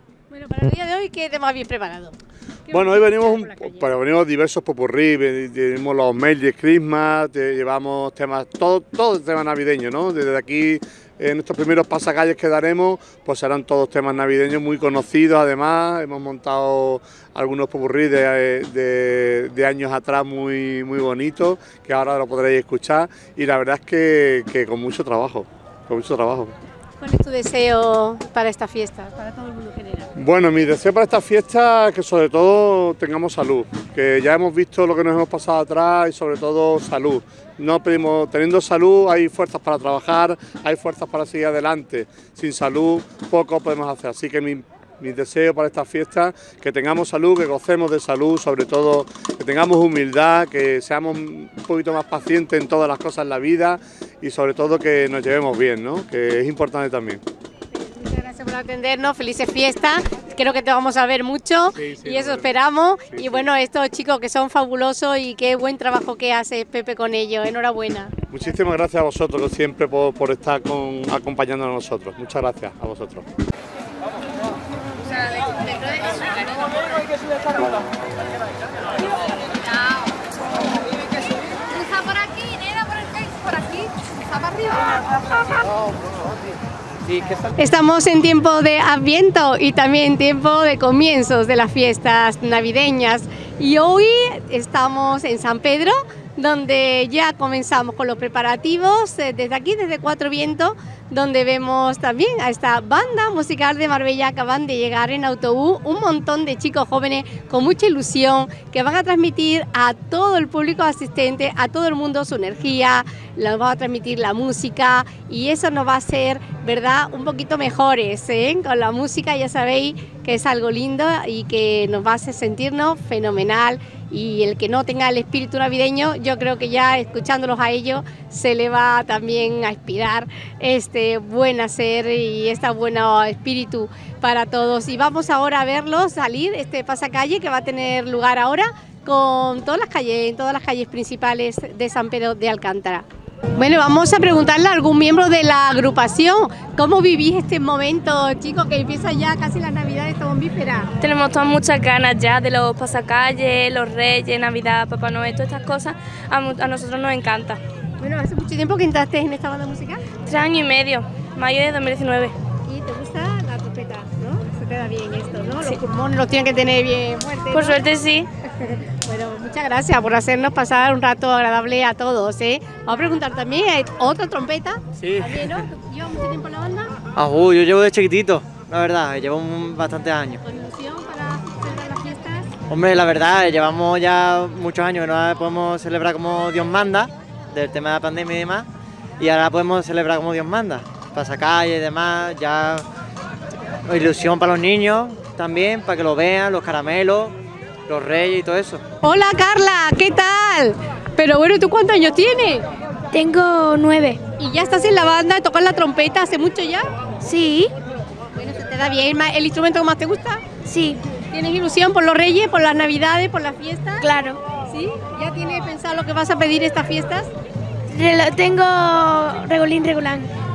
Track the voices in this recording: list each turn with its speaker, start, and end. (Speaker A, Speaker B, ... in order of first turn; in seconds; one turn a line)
Speaker A: 0.3-2.1
Speaker A: 2.7-3.9
Speaker B: 2.7-26.5
Speaker A: 27.0-30.1
Speaker B: 30.2-57.2
Speaker A: 57.7-68.1
Speaker B: 61.8-62.5
Speaker B: 63.1-63.5
Speaker B: 68.3-73.2
Speaker A: 75.9-76.3
Speaker A: 81.7-84.9
Speaker A: 87.5-150.9
Speaker C: 151.0-157.6
Speaker A: 158.0-160.1
Speaker C: 160.2-162.3
Speaker A: 162.7-167.8
Speaker C: 167.5-168.3
Speaker A: 168.6-176.9
Speaker D: 177.1-180.4
Speaker A: 180.4-182.5
Speaker D: 182.7-192.9
Speaker D: 193.9-197.3
Speaker D: 197.9-198.8
Speaker A: 199.0-202.7
Speaker E: 203.1-204.2
Speaker A: 204.4-206.9
Speaker E: 207.2-207.7
Speaker A: 208.3-210.4
Speaker E: 210.7-211.0
Speaker A: 211.3-214.1
Speaker E: 214.0-214.4
Speaker A: 214.7-217.3
Speaker E: 217.9-220.3